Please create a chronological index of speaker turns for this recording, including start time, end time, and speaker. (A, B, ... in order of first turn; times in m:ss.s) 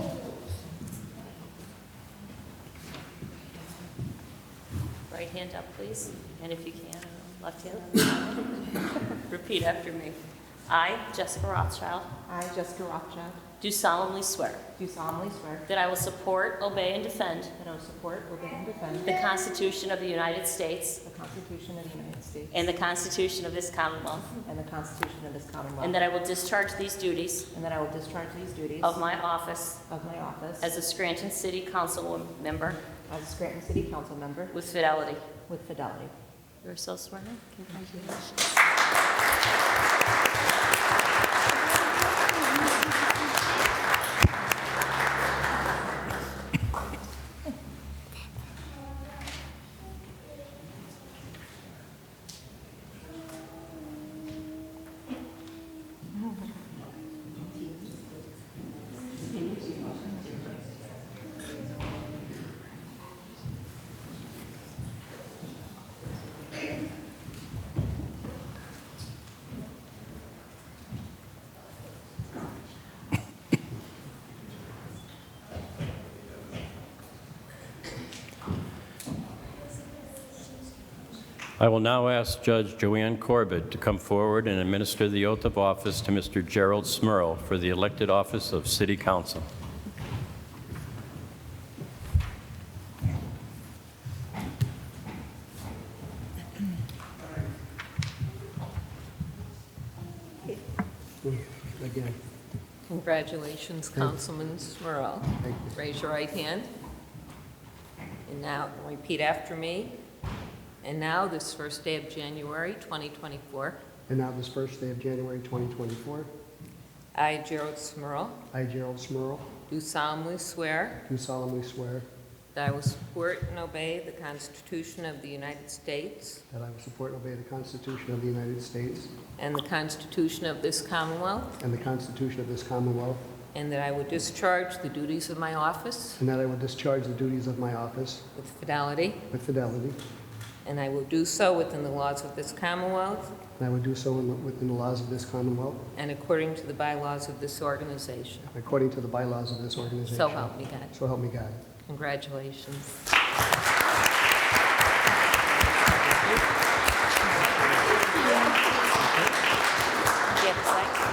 0:05.1-0:08.4 A
0:09.3-0:12.1 A
0:12.3-0:13.4 B
0:13.6-0:14.6 A
0:14.8-0:15.6 B
0:15.7-0:17.5 A
0:17.6-0:19.1 B
0:19.0-0:21.0 A
0:21.0-0:22.6 B
0:22.5-0:24.4 A
0:24.4-0:26.0 B
0:25.8-0:27.5 A
0:27.5-0:29.0 B
0:28.8-0:29.8 A
0:29.8-0:30.6 B
0:30.6-0:32.8 A
0:33.1-0:34.5 B
0:34.5-0:35.3 A
0:35.5-0:36.1 B
0:36.6-0:38.2 A
1:21.6-1:29.4 C
1:41.2-1:42.2 D
1:42.9-1:46.7 E
1:45.4-1:45.8 D
1:48.2-1:50.0 E
1:50.8-1:53.8 E
1:54.1-1:56.3 D
1:57.1-1:58.4 E
1:58.5-1:59.5 D
1:59.7-2:01.0 E
2:01.0-2:02.0 D
2:02.5-2:06.4 E
2:06.5-2:09.1 D
2:09.4-2:11.6 E
2:11.6-2:13.2 D
2:13.5-2:16.2 E
2:16.2-2:18.2 D
2:18.3-2:19.2 E
2:19.3-2:20.0 D
2:20.6-2:23.3 E
2:23.6-2:25.8 D
2:25.9-2:28.5 E
2:28.4-2:31.6 D
2:30.1-2:30.9 E
2:31.8-2:33.1 E
2:35.7-2:36.4 E
2:37.9-2:38.5 E
2:40.4-2:41.0 E